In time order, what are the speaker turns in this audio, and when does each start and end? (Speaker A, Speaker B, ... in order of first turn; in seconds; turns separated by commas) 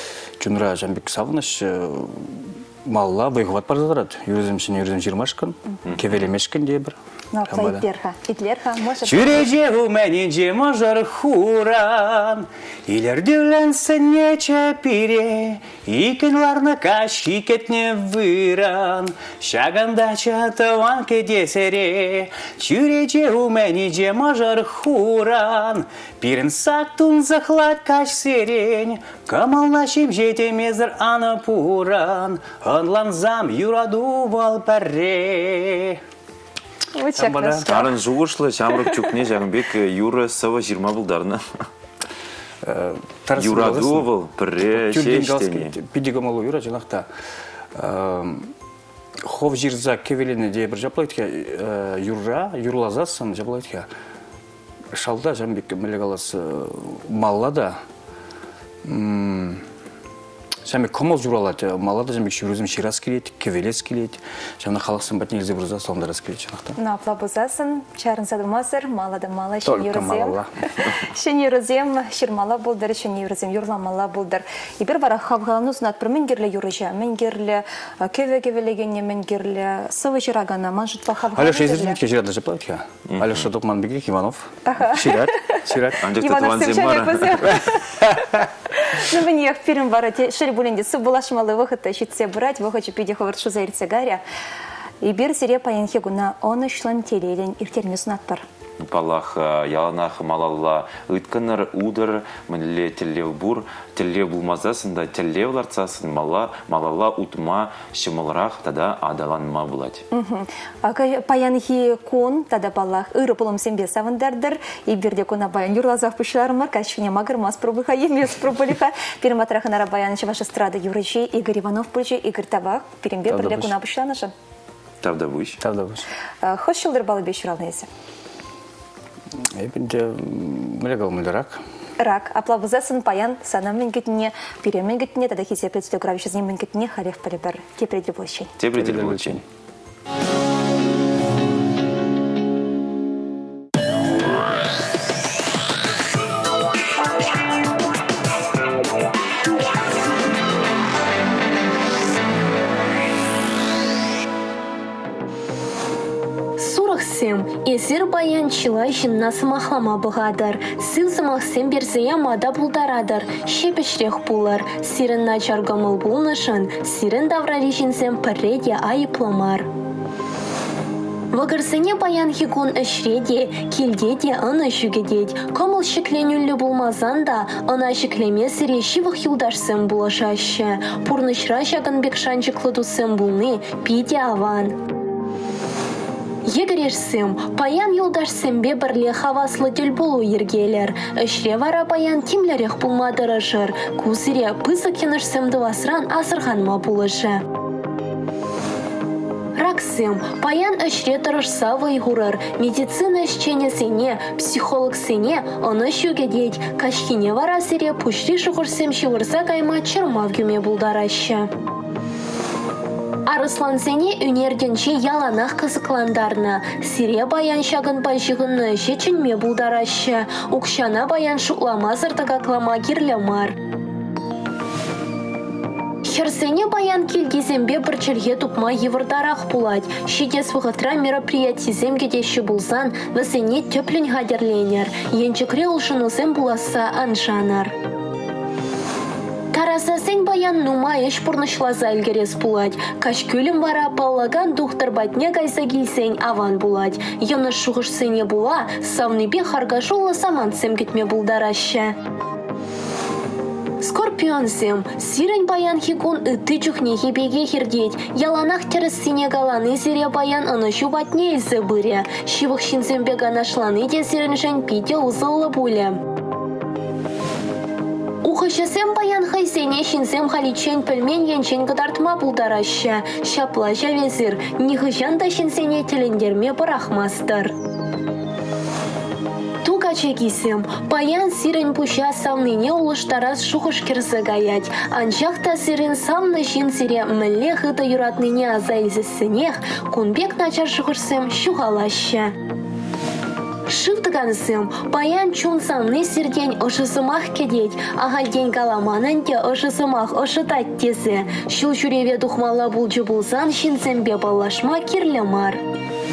Speaker A: 0.4-7.8, Speaker B: 5.9-6.2, Speaker C: 7.3-9.5, Speaker A: 9.0-36.0, Speaker C: 36.9-37.9, Speaker A: 37.2-37.7, Speaker B: 37.7-41.4, Speaker A: 42.6-44.1, Speaker B: 43.4-45.8, Speaker A: 44.7-47.1, Speaker A: 47.8-48.5, Speaker A: 49.2-53.9, Speaker A: 54.9-57.8, Speaker A: 58.9-59.6, Speaker A: 60.6-66.8, Speaker C: 66.8-82.0, Speaker A: 69.7-70.5, Speaker A: 81.3-86.0, Speaker B: 83.1-83.4, Speaker C: 84.7-87.9, Speaker B: 86.0-87.6, Speaker C: 88.7-94.2, Speaker C: 95.0-98.5, Speaker B: 98.8-110.0, Speaker C: 110.1-124.3, Speaker A: 123.3-123.8, Speaker B: 125.0-125.6, Speaker A: 125.6-126.1, Speaker C: 126.4-127.9, Speaker A: 129.6-131.6, Speaker C: 132.0-138.5, Speaker B: 138.6-139.4, Speaker A: 138.7-139.4, Speaker D: 156.6-169.7, Speaker D: 171.3-184.8, Speaker D: 186.4-197.4, Speaker D: 199.6-211.5, Speaker D: 213.3-223.5, Speaker D: 226.1-237.7, Speaker D: 239.5-251.9, Speaker D: 253.8-266.0, Speaker D: 268.2-277.5, Speaker D: 279.6-292.3, Speaker D: 293.7-305.6